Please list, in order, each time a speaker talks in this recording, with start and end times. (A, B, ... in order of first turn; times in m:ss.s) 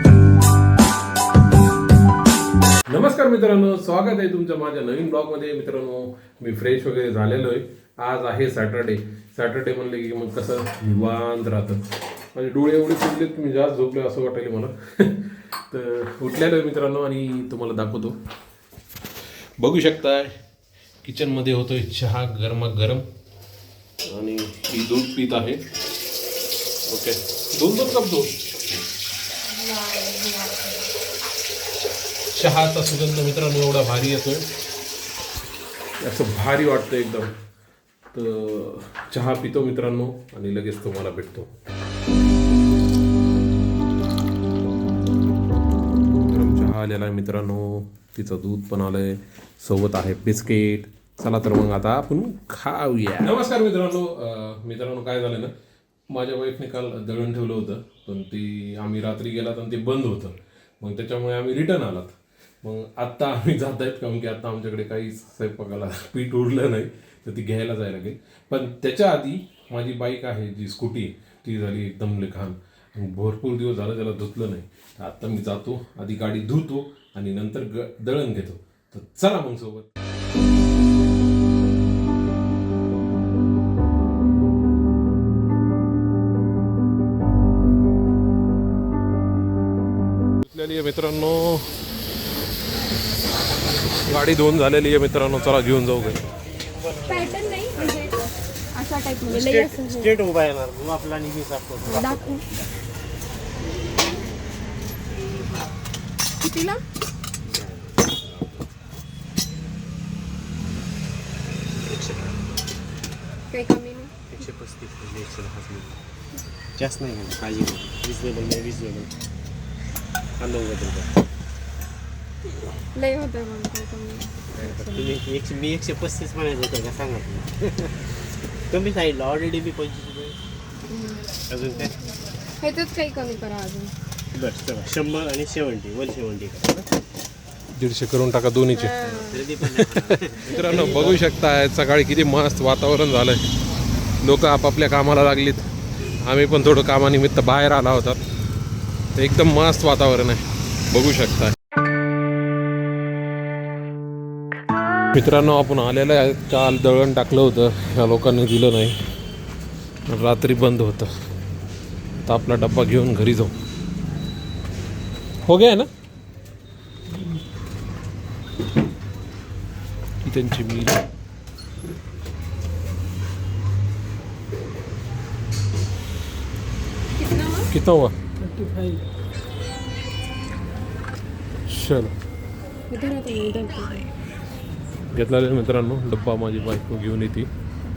0:02.9-0:18.2 A
0:19.6-0:20.4 A
0:21.0-0:23.0 A
0:24.0-0:25.6 A
0:26.9-0:28.3 A
0:29.5-0:30.8 B
0:32.3-0:34.5 A
0:36.0-0:37.3 A
0:38.1-0:41.5 A
0:46.1-0:55.5 A
0:56.1-1:19.9 A
1:30.4-1:31.7 A
1:34.0-1:36.2 A
1:36.8-1:38.0 C
1:36.9-1:40.2 B
1:39.3-1:42.7 C
1:41.9-1:42.4 B
1:46.4-1:46.8 B
1:47.4-1:48.6 C
1:51.8-1:52.7 C
1:53.5-1:54.1 B
1:54.3-1:56.0 C
1:56.8-1:59.1 C
2:00.4-2:01.2 C
2:02.9-2:05.2 B
2:04.5-2:08.1 C
2:08.7-2:10.4 C
2:10.9-2:11.4 B
2:11.5-2:12.0 C
2:12.6-2:13.9 B
2:14.3-2:16.9 C
2:17.7-2:19.0 A
2:18.7-2:19.5 B
2:18.9-2:21.2 C
2:19.6-2:23.5 A
2:20.6-2:21.0 B
2:24.2-2:28.2 A
2:29.2-2:31.6 A
2:35.1-2:39.0 A
2:40.1-2:41.1 A
2:42.2-2:43.5 A
2:45.4-2:45.9 A
2:50.2-2:51.0 A
2:57.2-2:57.7 B
2:57.7-2:58.2 A
2:58.4-2:59.0 C
3:01.7-3:02.1 A
3:02.9-3:04.1 B
3:05.1-3:07.5 A